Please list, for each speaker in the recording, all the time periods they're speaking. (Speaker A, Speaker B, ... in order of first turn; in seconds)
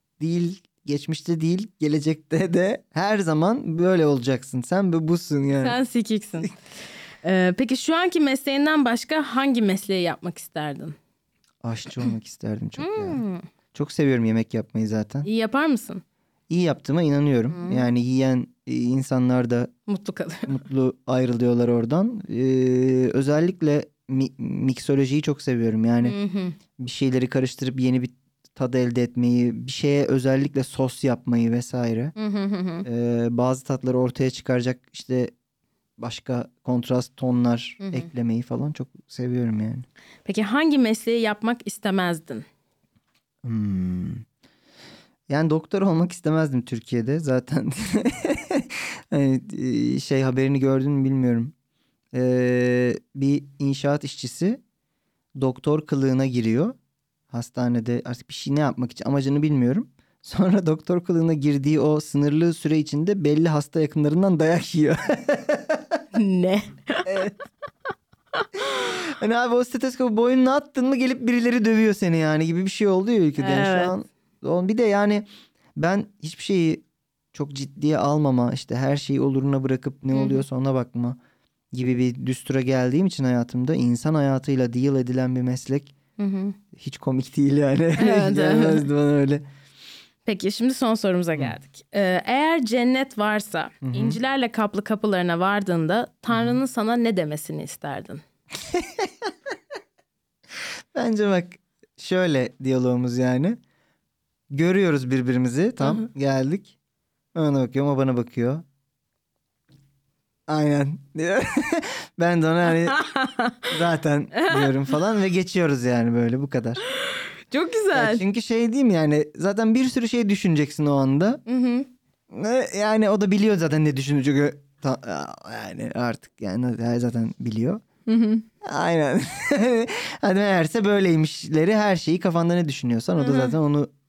Speaker A: 0.2-5.8, 11.6-13.2, 13.7-15.3, 16.5-19.7, 20.5-26.2, 26.8-32.1, 32.9-35.3, 36.0-39.9, 43.4-44.2, 45.3-51.5, 52.1-54.6, 55.4-56.8, 57.3-66.0, 67.1-67.3, 68.6-81.2, 81.7-85.9, 86.7-89.5, 93.8-94.2, 96.3-96.6, 98.7-99.5, 100.9-103.6, 104.5-106.7, 107.3-108.6, 110.5-113.0, 113.7-116.8, 117.9-121.4, 122.3-127.8, 128.6-133.9
Speaker B: 5.6-6.5, 7.2-11.0, 12.8-13.4, 15.2-16.0, 17.5-17.9, 19.9-20.6, 26.0-26.6, 32.2-32.9, 37.8-38.1, 40.3-42.5, 66.1-67.4, 68.4-68.9, 73.4-74.0, 80.1-80.4, 86.2-86.6, 88.0-88.9, 90.3-98.2, 112.7-113.7, 114.3-114.9, 116.9-118.2, 121.5-121.9, 128.1-128.4, 133.2-133.6